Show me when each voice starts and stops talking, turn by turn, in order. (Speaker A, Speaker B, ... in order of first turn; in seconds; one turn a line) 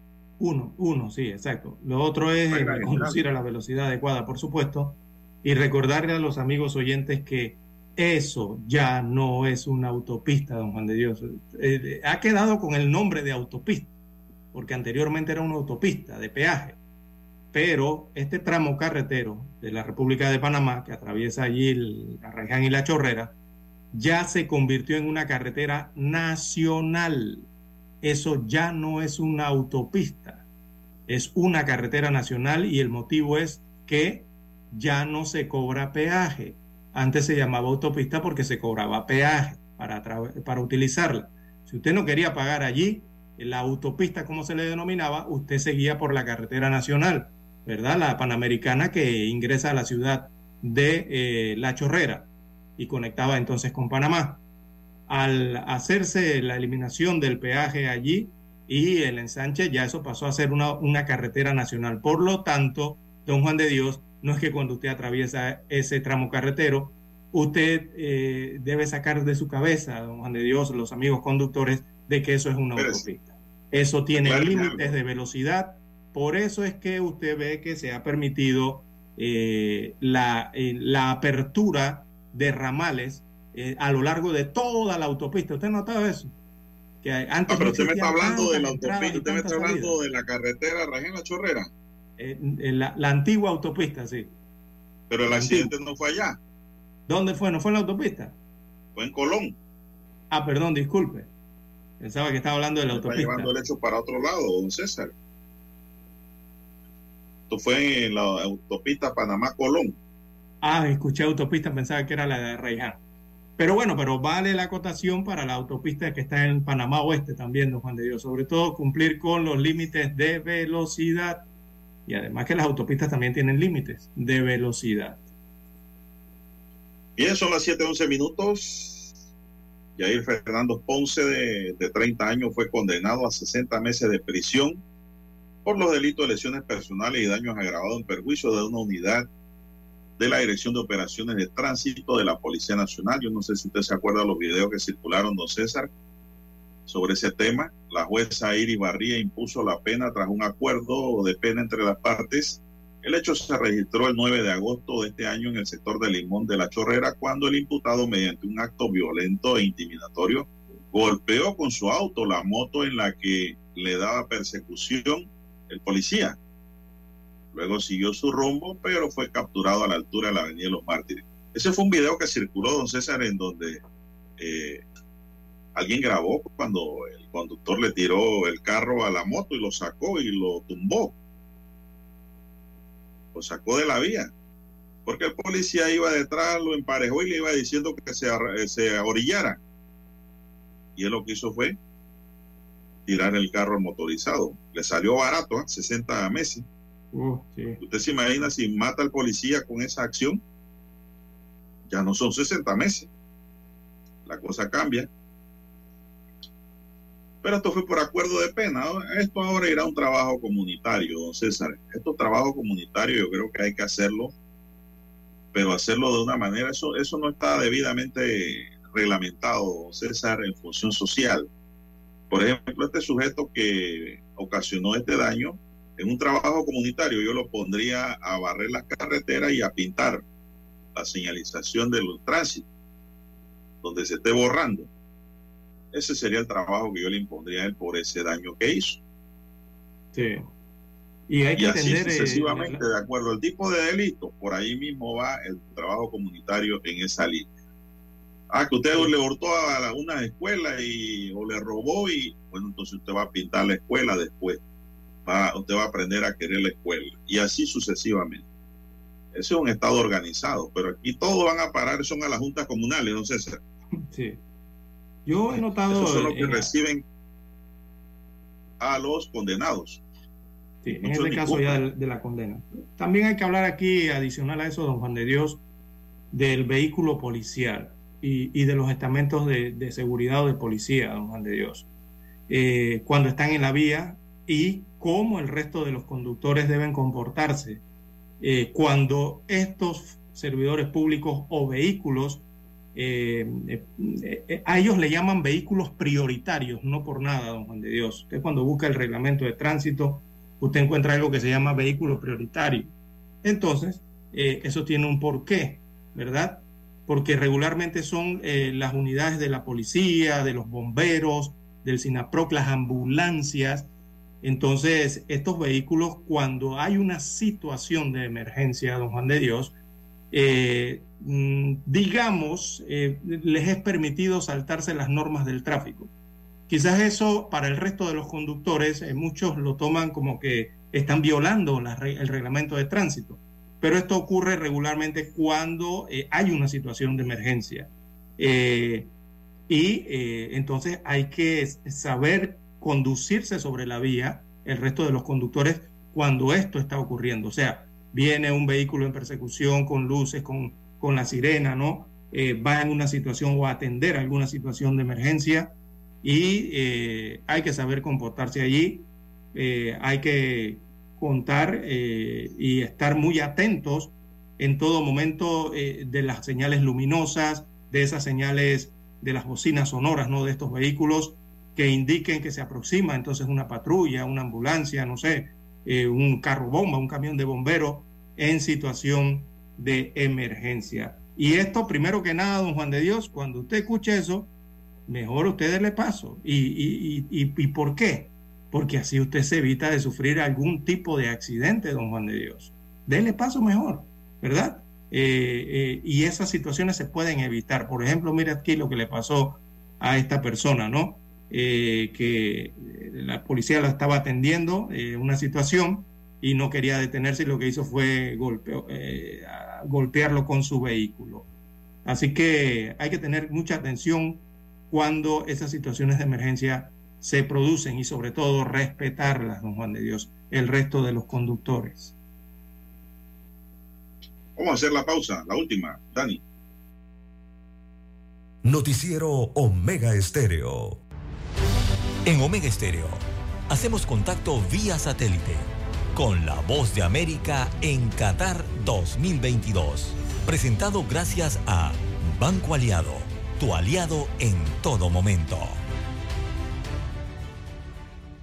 Speaker A: 0.4-13.9
Speaker B: 2.5-3.2
Speaker A: 14.5-16.8
Speaker A: 17.5-23.3
Speaker A: 23.9-27.4
Speaker A: 28.0-30.4
Speaker A: 31.1-54.4
Speaker A: 55.1-86.3
Speaker B: 72.8-73.0
Speaker B: 74.2-74.9
Speaker A: 87.0-89.9
Speaker B: 87.5-91.7
Speaker A: 92.2-94.3
Speaker B: 95.1-96.4
Speaker A: 95.3-95.7
Speaker A: 97.1-98.3
Speaker B: 99.0-99.5
Speaker A: 100.3-101.3
Speaker A: 102.0-103.5
Speaker B: 102.9-105.1
Speaker B: 107.5-110.0
Speaker A: 110.6-113.0
Speaker A: 113.6-121.4
Speaker A: 122.1-125.2
Speaker B: 127.2-129.1
Speaker B: 129.9-134.8
Speaker B: 135.6-139.3
Speaker B: 140.2-145.9
Speaker B: 146.9-166.3
Speaker B: 167.5-173.8
Speaker B: 174.4-174.8
Speaker B: 175.7-181.1
Speaker B: 183.3-184.3
Speaker B: 185.1-189.6
Speaker B: 190.9-191.8
Speaker B: 193.1-196.6
Speaker A: 197.1-197.8
Speaker B: 197.8-200.4
Speaker B: 201.9-203.1
Speaker B: 204.2-205.1
Speaker B: 207.4-214.3
Speaker B: 215.5-221.5
Speaker B: 222.3-230.2
Speaker B: 230.9-232.7
Speaker B: 233.8-234.9
Speaker B: 235.9-239.0
Speaker A: 240.1-240.5
Speaker A: 241.3-242.8
Speaker B: 241.6-247.5
Speaker B: 248.5-254.6
Speaker B: 255.2-258.4
Speaker B: 259.3-263.6
Speaker A: 264.1-264.4
Speaker A: 265.2-266.7
Speaker B: 265.5-267.0
Speaker B: 268.8-270.0
Speaker A: 270.8-275.6
Speaker B: 271.0-271.8
Speaker A: 276.3-281.9
Speaker A: 282.5-287.8
Speaker A: 288.4-292.4
Speaker A: 292.9-302.9
Speaker A: 303.4-313.9
Speaker A: 314.4-319.7
Speaker A: 320.3-326.1
Speaker A: 326.7-339.1
Speaker A: 339.7-355.7
Speaker A: 356.2-384.5
Speaker A: 385.1-411.5
Speaker A: 412.0-422.1
Speaker B: 424.6-426.4
Speaker C: 428.6-431.0
Speaker D: 432.2-445.8